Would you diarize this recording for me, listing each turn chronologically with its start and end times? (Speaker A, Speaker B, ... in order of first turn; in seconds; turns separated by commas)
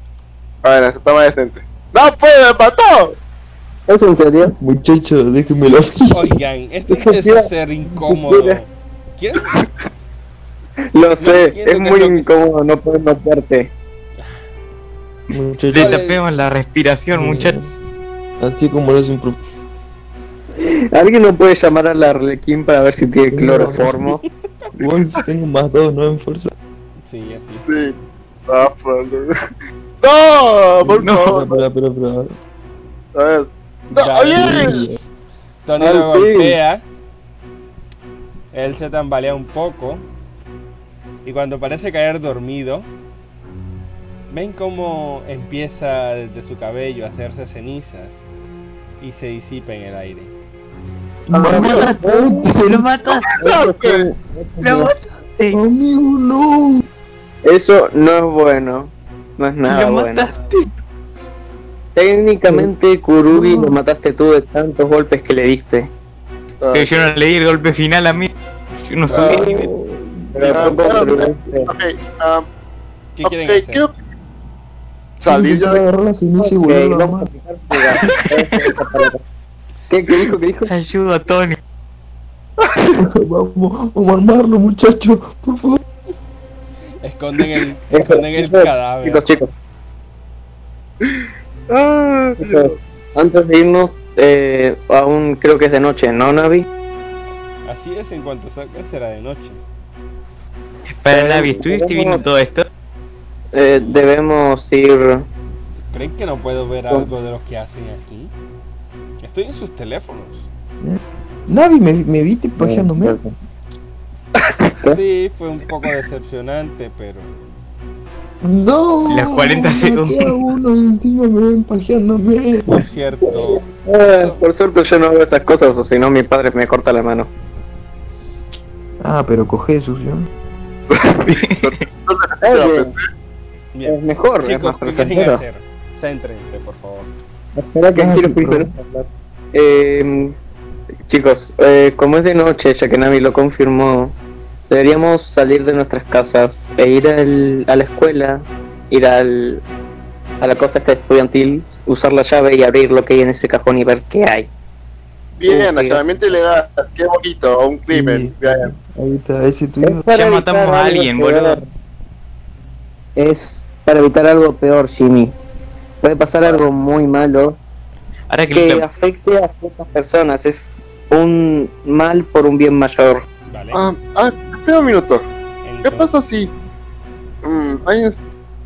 Speaker A: 0.6-3.2, Speaker B: 3.9-4.5, Speaker C: 4.5-6.3, Speaker D: 6.1-9.6, Speaker B: 6.9-8.6, Speaker B: 10.9-13.7, Speaker D: 11.2-12.3, Speaker C: 15.3-16.0, Speaker E: 15.3-17.6, Speaker D: 15.7-16.2, Speaker C: 17.1-17.7, Speaker C: 18.4-19.4, Speaker B: 20.6-24.2, Speaker C: 23.3-24.0, Speaker C: 24.8-26.5, Speaker D: 27.0-27.7, Speaker A: 27.7-28.0, Speaker A: 28.5-29.3, Speaker A: 30.0-31.6, Speaker C: 30.8-32.4, Speaker E: 31.0-31.4, Speaker A: 33.1-34.8, Speaker D: 33.9-34.8, Speaker C: 34.3-35.0, Speaker D: 35.6-36.8, Speaker B: 35.8-36.6, Speaker D: 38.5-40.0, Speaker D: 41.2-42.9, Speaker D: 44.3-48.2, Speaker D: 49.0-50.3, Speaker C: 51.3-52.9, Speaker A: 51.3-51.9, Speaker B: 51.4-52.7, Speaker E: 51.5-53.4, Speaker A: 53.2-54.1, Speaker B: 53.4-54.9, Speaker E: 54.6-55.6, Speaker C: 55.5-56.9, Speaker B: 57.4-60.3, Speaker E: 59.6-60.7, Speaker B: 61.9-65.9, Speaker C: 62.4-62.7, Speaker C: 63.3-63.8, Speaker A: 66.6-67.1, Speaker E: 66.7-68.3, Speaker E: 68.8-69.7, Speaker B: 69.1-69.5, Speaker C: 69.1-71.2, Speaker A: 70.3-72.5, Speaker B: 70.3-71.7, Speaker D: 73.2-73.9, Speaker A: 73.2-73.9, Speaker A: 75.2-75.8, Speaker C: 75.2-77.3, Speaker B: 76.4-79.2, Speaker E: 78.1-78.7, Speaker B: 79.9-80.7, Speaker E: 80.7-81.6, Speaker C: 83.0-85.8, Speaker D: 87.0-89.3, Speaker B: 87.9-89.5, Speaker A: 91.0-92.8, Speaker B: 92.4-96.7, Speaker D: 97.6-99.6, Speaker E: 101.0-102.7, Speaker B: 101.1-102.2, Speaker B: 103.5-105.3, Speaker D: 103.7-104.1, Speaker D: 105.9-108.3, Speaker D: 109.2-110.5, Speaker C: 110.8-113.2, Speaker B: 112.6-113.3, Speaker A: 114.4-114.6, Speaker D: 114.8-117.4, Speaker C: 118.4-122.8, Speaker E: 119.1-120.4, Speaker D: 122.7-124.4, Speaker B: 123.3-127.3, Speaker C: 129.0-130.3, Speaker A: 130.9-133.1, Speaker E: 131.2-131.8, Speaker B: 132.4-132.9, Speaker D: 133.7-137.1, Speaker B: 133.8-135.4, Speaker B: 137.5-140.4, Speaker C: 137.9-138.7, Speaker B: 141.1-144.2, Speaker B: 144.7-149.6, Speaker B: 150.4-154.5, Speaker A: 155.4-158.7, Speaker B: 155.5-156.0, Speaker C: 157.9-160.1, Speaker B: 159.8-161.7, Speaker E: 160.1-161.6, Speaker B: 163.2-165.3, Speaker B: 166.0-167.6, Speaker E: 168.3-168.8, Speaker B: 168.5-173.2, Speaker D: 173.5-173.8, Speaker A: 173.7-175.2, Speaker D: 175.6-176.1, Speaker A: 175.8-176.5, Speaker A: 177.4-178.2